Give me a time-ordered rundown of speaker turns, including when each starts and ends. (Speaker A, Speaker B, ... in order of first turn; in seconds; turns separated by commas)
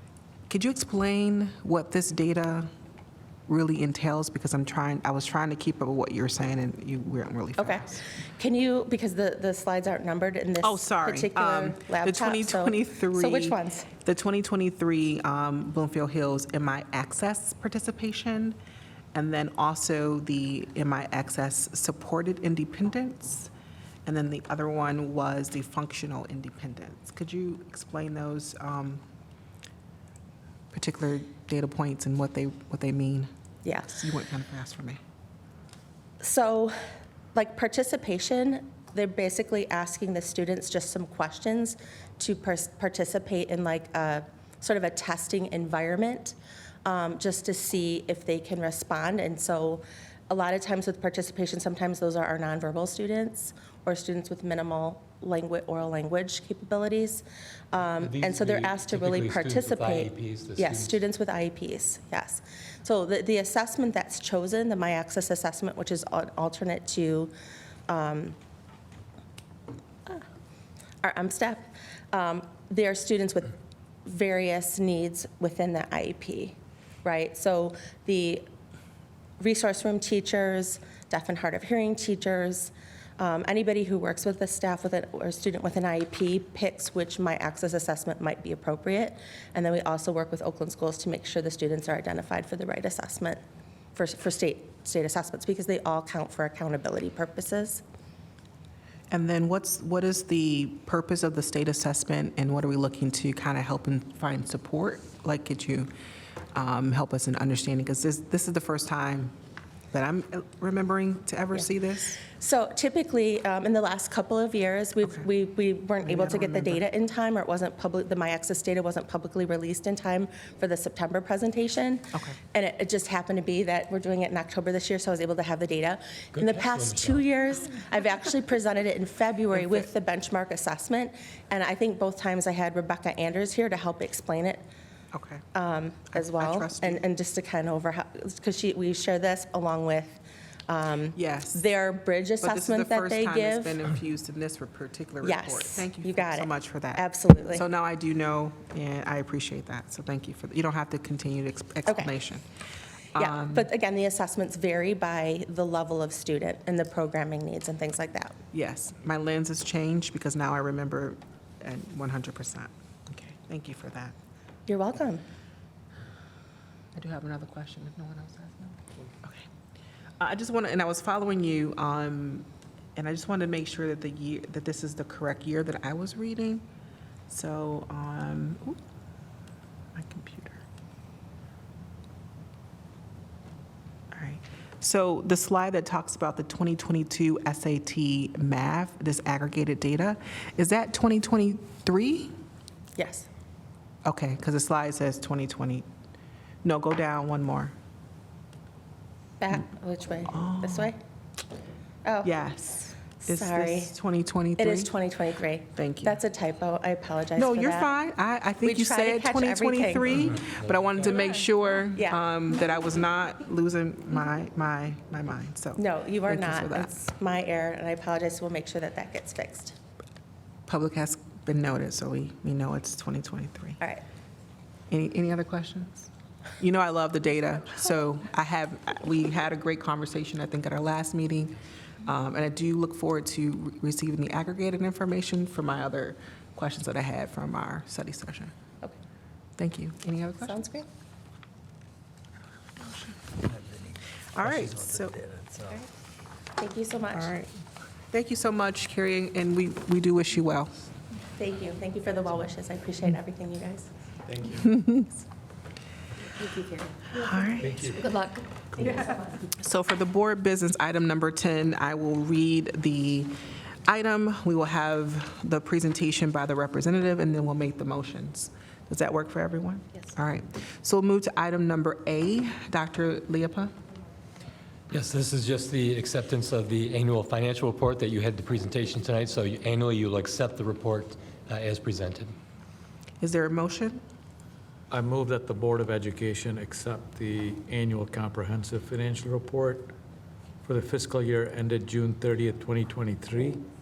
Speaker A: 0.5-2.7, Speaker A: 3.5-8.1, Speaker B: 7.6-7.8, Speaker B: 8.4-13.9, Speaker A: 10.6-18.6, Speaker A: 19.1-23.5, Speaker A: 24.1-29.0, Speaker A: 30.7-33.3, Speaker B: 33.6-33.9, Speaker A: 33.9-35.0, Speaker B: 36.2-36.8, Speaker B: 37.3-67.3, Speaker C: 58.0-61.0, Speaker B: 67.9-68.4, Speaker B: 71.0-78.5, Speaker B: 79.4-93.4, Speaker B: 93.9-97.8, Speaker A: 99.1-105.9, Speaker A: 106.5-109.3, Speaker A: 109.9-112.2, Speaker B: 112.3-134.7, Speaker A: 116.0-116.8, Speaker C: 126.3-127.3, Speaker A: 129.5-129.8, Speaker A: 135.1-135.4, Speaker B: 135.5-143.8, Speaker A: 136.1-137.1, Speaker A: 141.1-141.6, Speaker A: 142.4-152.4, Speaker B: 145.2-147.7, Speaker B: 151.8-152.1, Speaker A: 153.1-153.7, Speaker B: 153.2-158.4, Speaker A: 158.5-164.2, Speaker B: 164.7-165.2, Speaker A: 166.9-169.5, Speaker A: 170.2-176.6, Speaker A: 177.3-178.8, Speaker A: 179.9-180.6, Speaker A: 184.1-192.3, Speaker B: 193.0-193.3, Speaker A: 194.0-195.9, Speaker A: 196.6-197.7, Speaker B: 199.4-201.0, Speaker A: 200.3-200.9, Speaker B: 202.0-202.4, Speaker A: 202.2-204.9, Speaker B: 203.2-203.9, Speaker B: 204.6-207.9, Speaker A: 205.8-206.2, Speaker A: 207.3-217.1, Speaker B: 208.6-210.2, Speaker C: 210.4-211.1, Speaker B: 215.8-219.8, Speaker A: 220.7-223.8, Speaker A: 224.9-226.1, Speaker A: 226.6-238.5, Speaker A: 239.6-240.6, Speaker B: 240.4-240.9, Speaker A: 242.8-243.8, Speaker A: 244.3-245.5, Speaker B: 246.6-247.3, Speaker A: 247.1-247.5, Speaker A: 248.1-250.8, Speaker B: 251.3-253.9, Speaker D: 254.3-254.7, Speaker A: 254.6-255.1, Speaker B: 256.2-259.4, Speaker A: 257.1-257.9, Speaker D: 257.6-258.1, Speaker A: 259.4-263.3, Speaker A: 263.9-273.7, Speaker C: 274.9-282.3, Speaker A: 283.2-284.0, Speaker D: 284.9-289.9, Speaker D: 290.6-293.6